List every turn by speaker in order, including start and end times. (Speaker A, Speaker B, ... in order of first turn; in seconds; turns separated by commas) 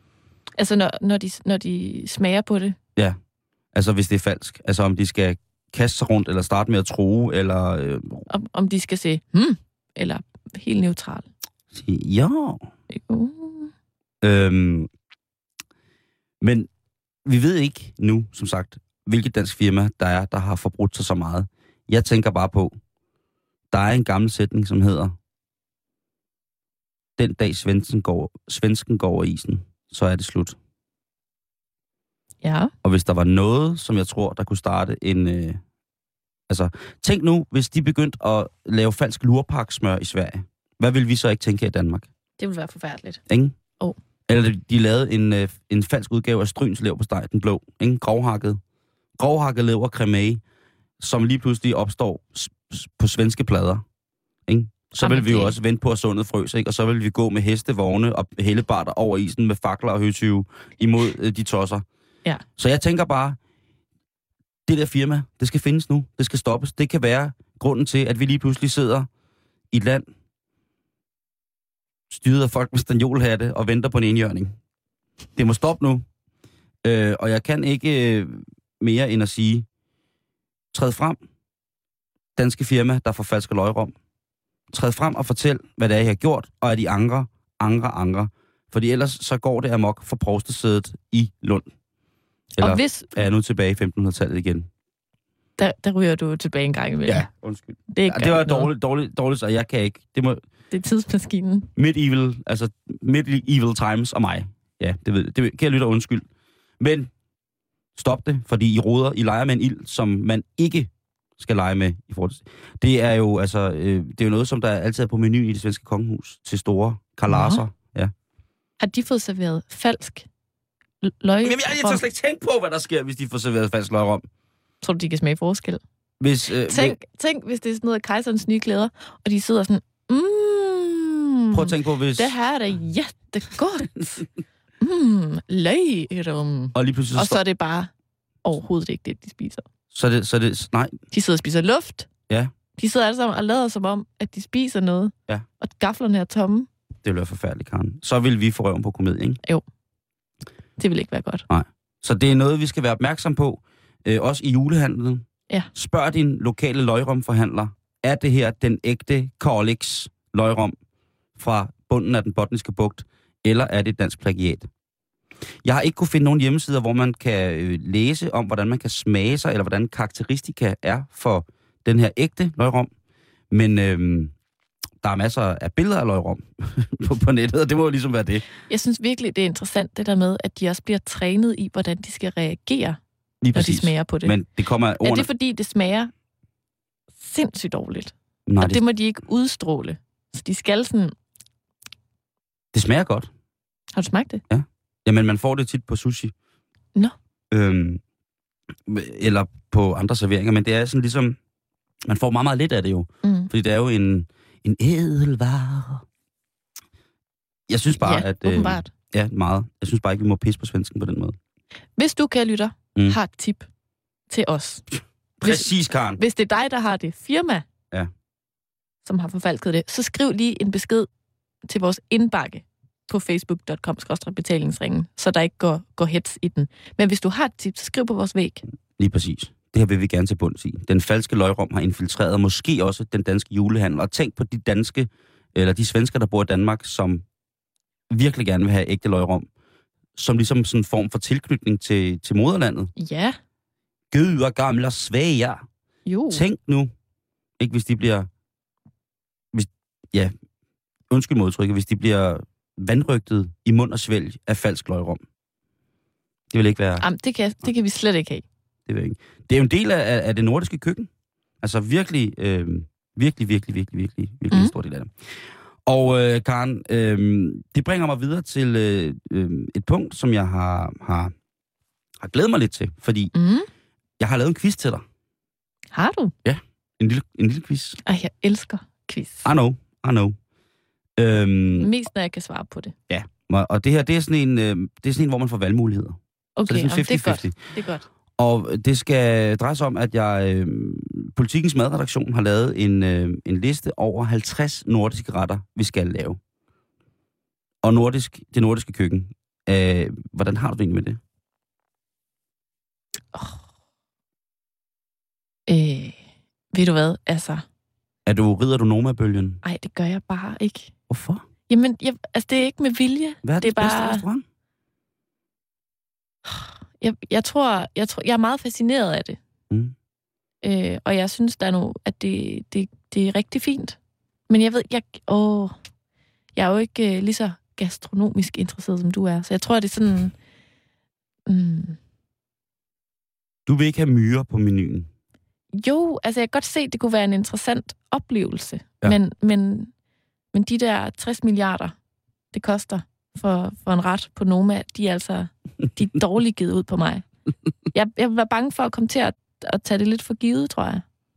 Speaker A: 0.6-2.8, Speaker B: 3.7-8.3, Speaker A: 8.3-11.3, Speaker B: 11.7-12.7, Speaker A: 12.9-13.7, Speaker B: 14.2-14.9, Speaker B: 16.4-16.7, Speaker B: 17.2-22.8, Speaker B: 23.7-25.1, Speaker B: 27.2-30.6, Speaker A: 32.4-32.7, Speaker B: 32.8-35.6, Speaker B: 36.5-42.1, Speaker A: 42.4-43.2, Speaker B: 43.3-43.6, Speaker B: 44.3-48.6, Speaker B: 49.2-50.4, Speaker B: 51.0-53.8, Speaker B: 54.5-61.8, Speaker A: 55.0-55.5, Speaker B: 62.6-63.4, Speaker B: 64.7-69.1, Speaker B: 69.7-70.1, Speaker B: 72.1-74.5, Speaker B: 75.4-76.1, Speaker B: 76.8-79.7, Speaker B: 80.7-81.2, Speaker B: 82.4-83.9, Speaker B: 84.7-91.7, Speaker A: 92.6-93.1, Speaker B: 92.6-94.7, Speaker A: 95.6-97.3, Speaker B: 97.1-100.4, Speaker A: 97.9-98.7, Speaker A: 100.7-101.7, Speaker B: 101.8-106.3, Speaker B: 106.8-107.1, Speaker B: 108.0-118.1, Speaker A: 117.3-117.6, Speaker A: 118.8-120.3, Speaker A: 121.0-122.0, Speaker B: 121.4-124.3, Speaker A: 124.8-125.8, Speaker B: 126.2-127.0, Speaker A: 126.7-134.2, Speaker B: 131.5-132.3, Speaker A: 134.8-137.9, Speaker B: 136.8-137.4, Speaker A: 138.4-139.7, Speaker B: 139.9-141.0, Speaker A: 141.1-142.1, Speaker A: 142.8-146.7, Speaker B: 147.0-149.4, Speaker A: 150.8-151.5, Speaker B: 151.5-160.8, Speaker B: 161.4-164.7, Speaker B: 165.6-172.9, Speaker B: 173.5-174.3, Speaker B: 175.0-178.5, Speaker A: 178.7-183.0, Speaker B: 183.4-185.3, Speaker A: 183.5-184.3, Speaker A: 185.0-186.1, Speaker A: 187.2-191.1, Speaker B: 188.5-188.8, Speaker B: 192.7-193.3, Speaker A: 194.0-194.4, Speaker B: 194.5-196.3, Speaker B: 197.5-198.0, Speaker B: 198.9-201.4, Speaker B: 202.1-206.1, Speaker A: 203.2-203.5, Speaker B: 207.7-211.4, Speaker A: 208.0-208.9, Speaker A: 212.0-213.7, Speaker A: 214.3-214.8, Speaker B: 215.4-216.2, Speaker A: 215.4-217.7, Speaker A: 219.0-221.1, Speaker A: 221.7-228.6, Speaker B: 229.0-237.2, Speaker B: 238.1-239.5, Speaker B: 240.2-242.9, Speaker A: 243.0-243.4, Speaker B: 244.1-245.6, Speaker A: 246.1-246.4, Speaker B: 246.3-246.9, Speaker B: 247.6-248.3, Speaker B: 249.5-250.3, Speaker B: 251.1-255.2, Speaker B: 256.5-257.1, Speaker A: 257.0-258.4, Speaker B: 258.9-261.1, Speaker B: 261.6-271.3, Speaker B: 272.2-273.3, Speaker A: 273.3-273.7, Speaker B: 274.2-275.1, Speaker A: 275.9-276.3, Speaker B: 276.4-278.0, Speaker A: 278.0-279.5, Speaker B: 279.4-280.4, Speaker B: 281.2-281.9, Speaker A: 281.8-282.9, Speaker B: 283.1-287.6, Speaker A: 286.6-288.1, Speaker B: 288.4-296.4, Speaker B: 297.8-301.2, Speaker A: 303.3-303.6, Speaker A: 305.7-306.2, Speaker A: 306.7-307.6, Speaker B: 308.3-309.6, Speaker A: 309.6-310.9, Speaker B: 311.1-311.5, Speaker A: 311.7-314.2, Speaker B: 313.4-314.4, Speaker A: 316.5-319.4, Speaker B: 319.7-319.9, Speaker A: 320.6-324.0, Speaker A: 324.5-325.8, Speaker A: 326.6-330.4, Speaker A: 331.5-332.0, Speaker B: 333.7-335.1, Speaker A: 335.7-339.9, Speaker A: 340.5-342.0, Speaker A: 342.5-347.3, Speaker A: 347.9-351.0